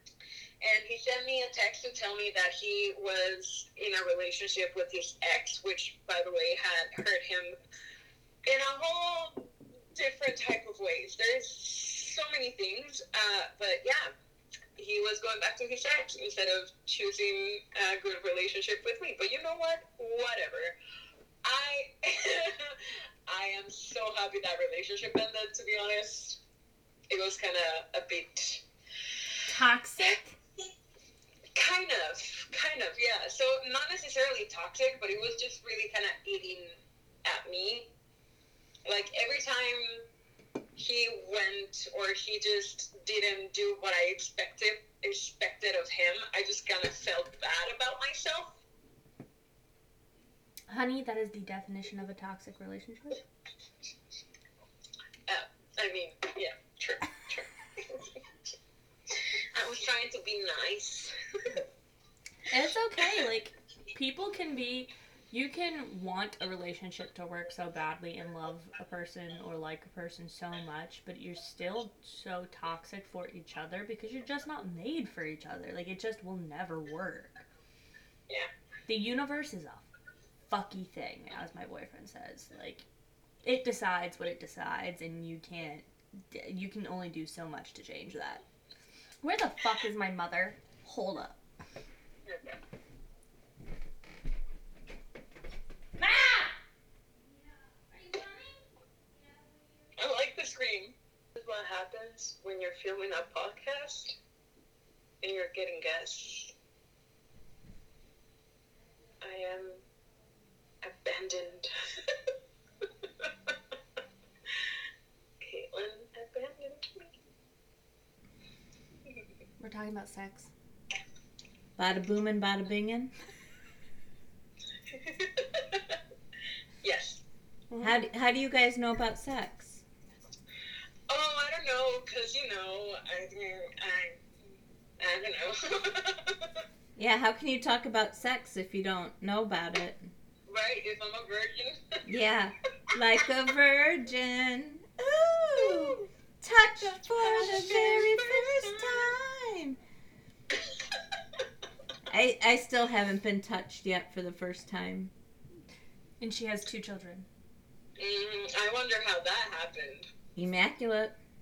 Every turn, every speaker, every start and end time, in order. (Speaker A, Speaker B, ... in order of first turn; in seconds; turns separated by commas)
Speaker A: 0.6-7.5, Speaker A: 8.4-14.1, Speaker A: 14.8-20.7, Speaker A: 21.4-26.4, Speaker A: 27.1-28.6, Speaker B: 29.5-30.4, Speaker A: 31.5-36.7, Speaker A: 37.2-37.9, Speaker A: 38.9-40.0, Speaker A: 40.8-48.6, Speaker B: 50.7-53.2, Speaker A: 55.3-58.2, Speaker A: 59.5-61.5, Speaker B: 62.5-77.4, Speaker B: 78.9-79.8, Speaker B: 80.5-82.8, Speaker B: 83.4-88.4, Speaker B: 89.2-91.3, Speaker A: 92.3-92.5, Speaker B: 96.0-96.5, Speaker B: 97.4-98.6, Speaker B: 99.2-99.4, Speaker A: 100.0-104.2, Speaker A: 105.2-106.5, Speaker A: 109.2-109.8, Speaker A: 110.8-112.2, Speaker A: 113.2-113.5, Speaker A: 115.4-117.1, Speaker B: 119.6-120.5, Speaker C: 121.8-123.1, Speaker A: 124.9-126.0, Speaker A: 126.8-127.2, Speaker B: 127.7-128.0, Speaker C: 127.8-129.8, Speaker A: 131.1-134.2, Speaker A: 135.0-136.6, Speaker C: 136.9-140.1, Speaker A: 140.5-142.0, Speaker C: 142.0-149.8, Speaker A: 145.6-146.0, Speaker A: 147.1-149.1, Speaker C: 152.1-155.1, Speaker B: 156.2-157.2, Speaker A: 158.0-160.1, Speaker C: 160.3-161.1